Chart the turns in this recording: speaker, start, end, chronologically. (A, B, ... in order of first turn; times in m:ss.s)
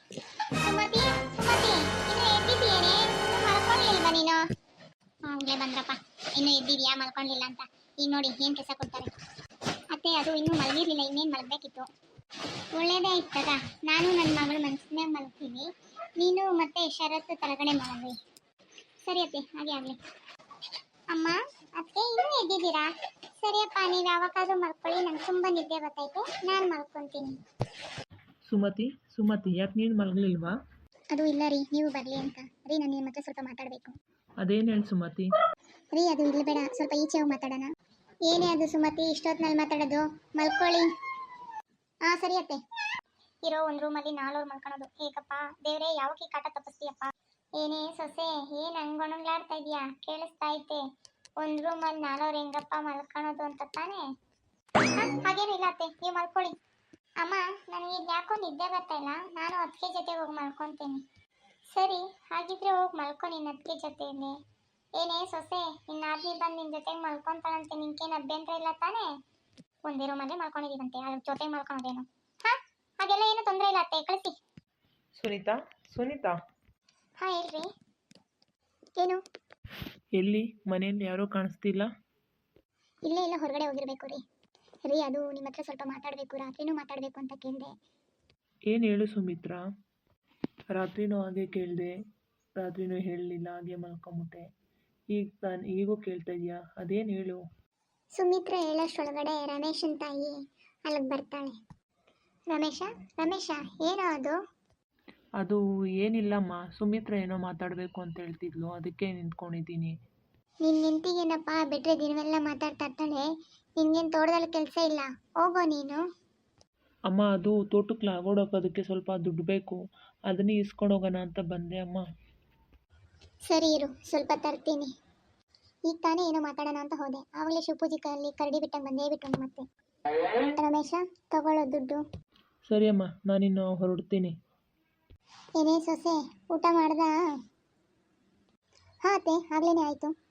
0:00.6-0:04.4 A
0:05.3-0:09.1 A
0:09.9-0:11.9 A
0:12.8-0:15.7 A
0:16.2-0:18.2 A
0:19.1-0:20.0 A
0:21.1-0:27.4 A
0:28.5-0:30.6 B
0:31.1-0:34.0 A
0:34.4-0:35.3 B
0:35.9-0:37.7 A
0:38.3-0:40.9 A
0:42.1-0:42.6 A
0:43.5-0:50.8 A
0:51.4-0:54.1 A
0:54.9-0:56.6 A
0:57.2-1:01.0 A
1:01.7-1:04.4 A
1:05.0-1:09.1 A
1:09.9-1:14.4 A
1:15.2-1:16.4 B
1:17.2-1:17.7 A
1:19.0-1:19.2 A
1:20.2-1:21.9 B
1:23.1-1:24.2 A
1:24.9-1:27.7 A
1:28.7-1:29.6 B
1:30.7-1:32.0 B
1:32.6-1:34.5 B
1:35.1-1:37.4 B
1:38.2-1:41.6 A
1:42.5-1:44.4 A
1:45.4-1:50.0 B
1:50.6-1:53.3 A
1:53.8-1:56.0 A
1:57.1-2:02.0 B
2:03.5-2:04.9 A
2:05.9-2:09.6 A
2:10.6-2:12.0 A
2:12.7-2:14.4 B
2:15.6-2:17.2 A
2:19.0-2:20.1 A